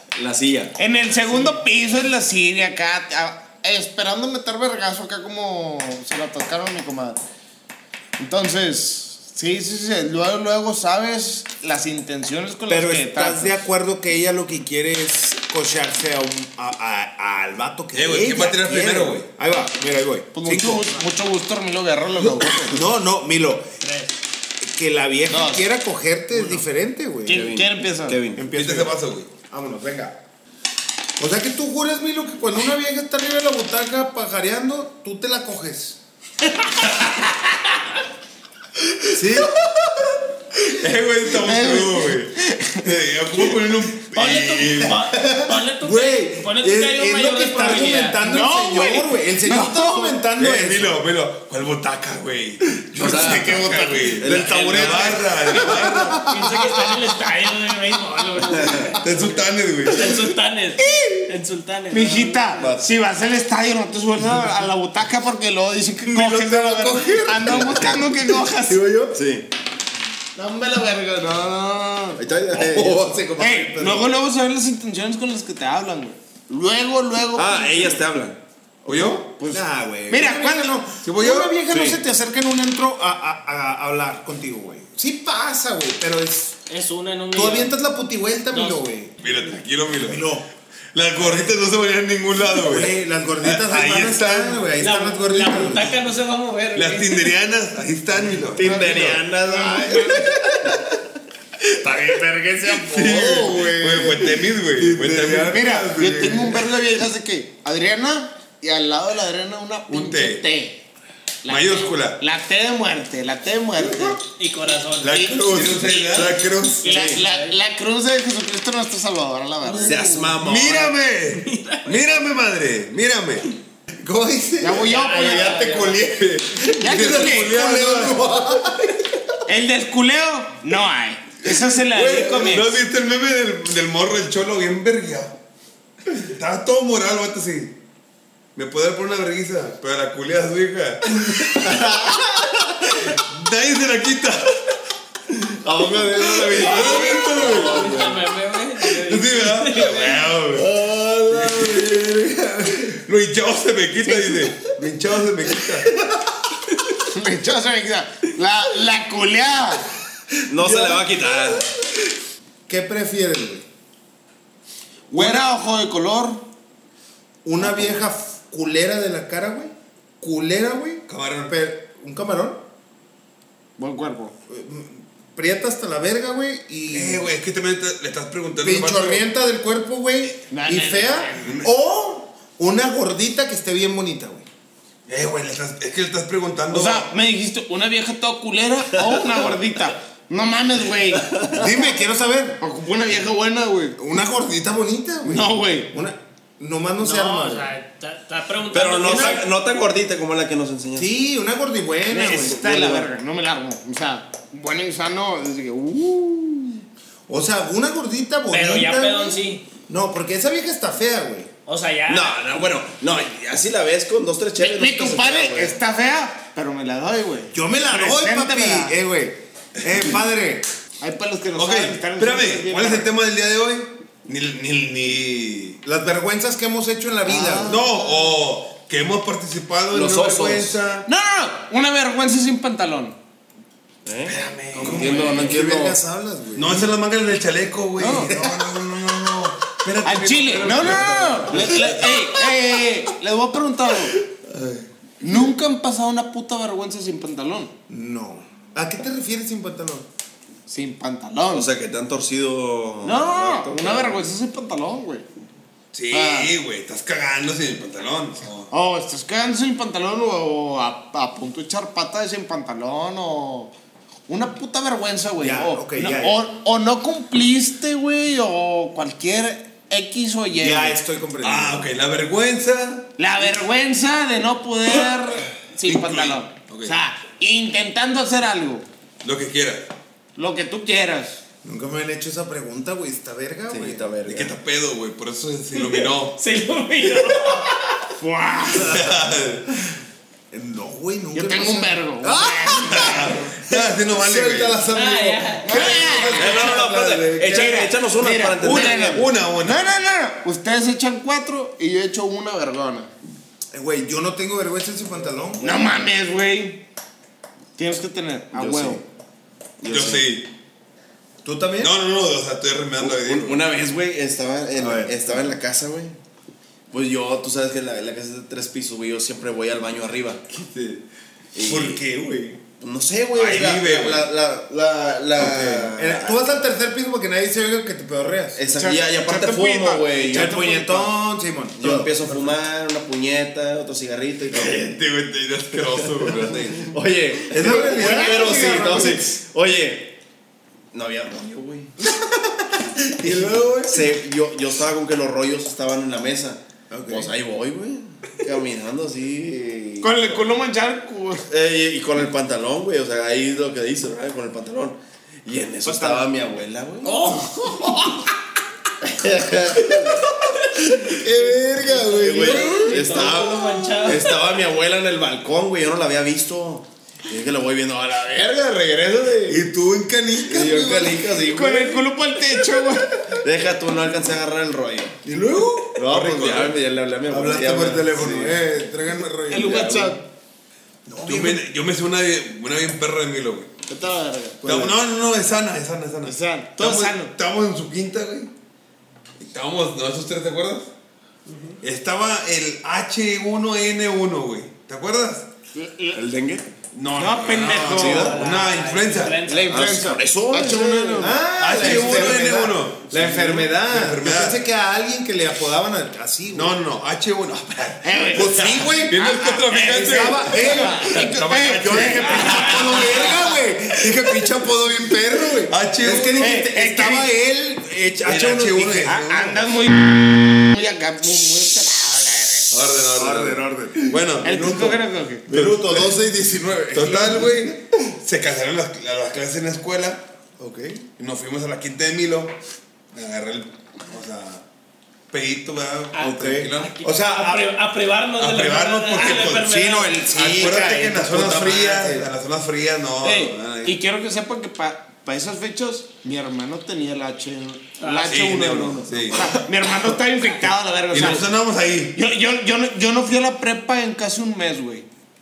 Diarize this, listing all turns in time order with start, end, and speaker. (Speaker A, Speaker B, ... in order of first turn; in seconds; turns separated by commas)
Speaker A: 0.1-0.8, Speaker B: 0.8-7.2, Speaker B: 8.2-13.6, Speaker C: 12.7-21.0, Speaker D: 17.9-19.2, Speaker B: 20.3-22.8, Speaker C: 22.2-23.7, Speaker E: 23.8-24.1, Speaker C: 24.6-27.5, Speaker B: 25.3-25.7, Speaker B: 27.2-28.2, Speaker A: 27.3-28.5, Speaker C: 28.3-30.1, Speaker D: 28.5-29.3, Speaker C: 31.2-36.0, Speaker C: 39.1-39.6, Speaker D: 40.7-45.0, Speaker B: 41.4-42.9, Speaker E: 44.0-48.2, Speaker C: 45.0-51.0, Speaker B: 48.2-50.2, Speaker D: 50.4-56.2, Speaker C: 52.9-57.0, Speaker A: 53.0-55.6, Speaker E: 55.5-59.0, Speaker A: 58.5-59.0, Speaker D: 59.0-60.3, Speaker E: 59.9-62.6, Speaker B: 61.9-68.8, Speaker A: 62.6-62.8, Speaker C: 66.0-69.2, Speaker A: 67.5-67.9, Speaker A: 69.1-69.5, Speaker B: 70.3-72.2, Speaker A: 72.2-73.2, Speaker C: 72.5-74.1, Speaker B: 73.4-78.0, Speaker A: 77.3-79.2, Speaker D: 78.9-79.3, Speaker B: 79.4-80.8, Speaker C: 79.5-86.6, Speaker D: 81.0-81.6, Speaker A: 81.7-82.0, Speaker E: 86.7-87.7, Speaker C: 87.3-89.1, Speaker E: 88.5-88.9, Speaker D: 89.2-90.3, Speaker C: 90.0-90.5, Speaker D: 90.9-94.8, Speaker C: 92.6-96.0, Speaker E: 94.8-97.3, Speaker D: 96.7-99.2, Speaker A: 98.4-100.8, Speaker C: 99.4-100.8, Speaker B: 99.5-100.0, Speaker C: 101.8-105.7, Speaker D: 102.7-106.7, Speaker B: 105.4-110.8, Speaker D: 109.9-110.4, Speaker B: 111.4-114.2, Speaker D: 111.5-112.2, Speaker E: 114.4-116.3, Speaker D: 115.0-116.9, Speaker B: 115.1-116.0, Speaker C: 116.1-116.6, Speaker B: 116.8-120.0, Speaker A: 116.8-117.2, Speaker E: 116.9-117.5, Speaker E: 119.6-120.3, Speaker A: 119.8-121.0, Speaker D: 120.3-123.5, Speaker E: 121.4-122.0, Speaker C: 124.0-129.0, Speaker B: 124.6-125.5, Speaker E: 124.8-126.0, Speaker D: 125.9-128.3, Speaker B: 126.7-127.6, Speaker B: 129.4-132.7, Speaker D: 131.4-135.3, Speaker D: 136.1-137.8, Speaker D: 138.5-144.7, Speaker A: 141.4-142.2, Speaker A: 145.5-148.2, Speaker D: 146.2-147.9, Speaker E: 146.6-150.2, Speaker D: 148.9-150.7, Speaker A: 150.5-152.0, Speaker D: 151.3-156.0, Speaker C: 151.9-152.3, Speaker B: 157.0-159.9, Speaker A: 160.5-161.7, Speaker C: 160.5-161.5, Speaker C: 162.7-163.6, Speaker B: 165.1-166.4, Speaker C: 165.1-165.4, Speaker C: 167.4-172.6, Speaker A: 167.6-168.0, Speaker D: 171.1-171.6, Speaker B: 173.8-174.3, Speaker C: 174.5-177.3, Speaker D: 176.9-179.2, Speaker C: 178.6-184.4, Speaker B: 180.5-181.6, Speaker D: 185.1-187.1, Speaker B: 186.7-191.3, Speaker A: 189.1-189.5, Speaker A: 191.1-191.7, Speaker C: 191.5-192.6, Speaker B: 192.6-194.0, Speaker C: 193.9-197.7, Speaker B: 195.2-195.9, Speaker E: 197.0-199.5, Speaker A: 198.7-201.1, Speaker C: 199.0-199.4, Speaker C: 200.9-202.7, Speaker B: 202.1-206.8, Speaker A: 202.2-203.1, Speaker C: 207.3-211.5, Speaker E: 208.5-209.7, Speaker E: 211.7-212.5, Speaker A: 212.1-215.8, Speaker B: 214.6-219.0, Speaker C: 217.5-220.7, Speaker B: 221.0-223.1, Speaker D: 221.5-225.8, Speaker C: 225.8-227.8, Speaker B: 227.2-227.9, Speaker D: 227.7-231.1, Speaker A: 229.9-230.8, Speaker B: 231.1-233.2, Speaker A: 234.0-236.0, Speaker D: 234.2-235.5, Speaker B: 234.8-235.6, Speaker C: 234.8-236.9, Speaker D: 236.5-242.5, Speaker B: 238.0-238.3, Speaker C: 238.2-238.7, Speaker B: 240.0-244.2, Speaker A: 241.6-242.0, Speaker D: 244.2-244.8, Speaker B: 245.2-247.7, Speaker C: 247.9-250.1, Speaker B: 250.7-251.7, Speaker A: 251.5-254.2, Speaker B: 253.0-255.2, Speaker D: 255.9-258.7, Speaker B: 256.1-256.5, Speaker B: 258.7-263.7, Speaker B: 264.3-271.0, Speaker C: 265.4-266.4, Speaker C: 270.6-271.9, Speaker D: 271.4-273.1, Speaker B: 273.2-278.9, Speaker D: 275.8-276.9, Speaker D: 279.2-279.9, Speaker B: 280.4-281.4, Speaker C: 281.6-284.1, Speaker A: 283.7-284.6, Speaker D: 284.2-286.4, Speaker E: 285.8-287.9, Speaker B: 288.2-289.0, Speaker D: 288.7-289.9, Speaker C: 290.5-297.9, Speaker B: 291.3-293.5, Speaker D: 292.9-294.9, Speaker E: 294.9-296.4, Speaker B: 295.6-296.7, Speaker D: 295.6-297.0, Speaker A: 296.4-299.2, Speaker B: 297.5-303.1, Speaker D: 298.6-299.9, Speaker C: 303.7-306.0, Speaker B: 305.6-306.8, Speaker B: 307.8-309.0, Speaker A: 308.5-309.0, Speaker A: 309.8-310.3, Speaker D: 309.9-310.5, Speaker C: 311.4-311.9, Speaker D: 311.8-313.6, Speaker A: 313.0-316.1, Speaker C: 314.8-315.5, Speaker A: 316.9-320.5, Speaker D: 320.7-321.0, Speaker A: 321.5-322.0, Speaker D: 321.6-322.6, Speaker A: 322.8-326.4, Speaker D: 323.3-324.3, Speaker D: 325.4-325.9, Speaker C: 325.4-328.7, Speaker A: 328.5-331.1, Speaker B: 328.7-330.2, Speaker C: 330.3-332.1, Speaker A: 331.8-334.9, Speaker D: 334.5-336.9, Speaker A: 335.7-340.2, Speaker C: 337.5-339.4, Speaker B: 337.6-339.2, Speaker A: 340.9-341.9, Speaker C: 342.5-344.1, Speaker A: 343.8-350.2, Speaker C: 346.9-347.3, Speaker B: 350.0-351.5, Speaker A: 351.5-357.3, Speaker B: 355.9-356.2, Speaker E: 357.0-358.0, Speaker B: 357.6-357.9, Speaker A: 359.0-360.3, Speaker C: 361.1-363.4, Speaker A: 362.0-369.6, Speaker E: 362.3-364.3, Speaker B: 362.6-363.2, Speaker C: 369.5-371.2, Speaker D: 369.7-370.3, Speaker A: 370.4-372.1, Speaker B: 371.3-373.4, Speaker A: 373.4-375.2, Speaker C: 375.2-375.9, Speaker D: 375.5-376.8, Speaker A: 375.9-378.6, Speaker C: 377.3-379.9, Speaker B: 379.5-380.2, Speaker A: 379.5-380.2, Speaker C: 381.1-381.6, Speaker D: 381.2-383.7, Speaker B: 383.9-385.0, Speaker D: 384.6-388.5, Speaker B: 386.2-387.3, Speaker D: 389.4-390.9, Speaker E: 391.5-391.8, Speaker D: 391.8-395.5, Speaker B: 395.7-396.2, Speaker A: 396.1-396.7, Speaker D: 396.9-399.4, Speaker B: 397.2-398.4, Speaker E: 397.3-400.0, Speaker A: 397.8-398.4, Speaker B: 399.5-401.4, Speaker A: 399.5-402.4, Speaker C: 401.1-406.7, Speaker D: 401.6-404.6, Speaker D: 406.5-414.5, Speaker B: 408.0-413.0, Speaker C: 408.3-419.2, Speaker E: 412.4-413.4, Speaker D: 415.5-416.6, Speaker B: 416.4-417.3, Speaker D: 418.2-419.7, Speaker B: 419.0-422.8, Speaker D: 422.7-426.2, Speaker C: 423.1-424.2, Speaker B: 424.4-425.4, Speaker C: 425.5-427.8, Speaker D: 426.9-430.3, Speaker C: 430.6-431.0, Speaker D: 431.2-432.5, Speaker D: 433.1-434.6, Speaker D: 435.3-437.0, Speaker E: 436.1-440.2, Speaker C: 436.5-437.6, Speaker D: 438.4-444.0, Speaker C: 439.2-442.3, Speaker B: 443.2-451.5, Speaker E: 448.0-448.4, Speaker D: 448.2-449.7, Speaker D: 451.1-452.2, Speaker B: 452.1-455.1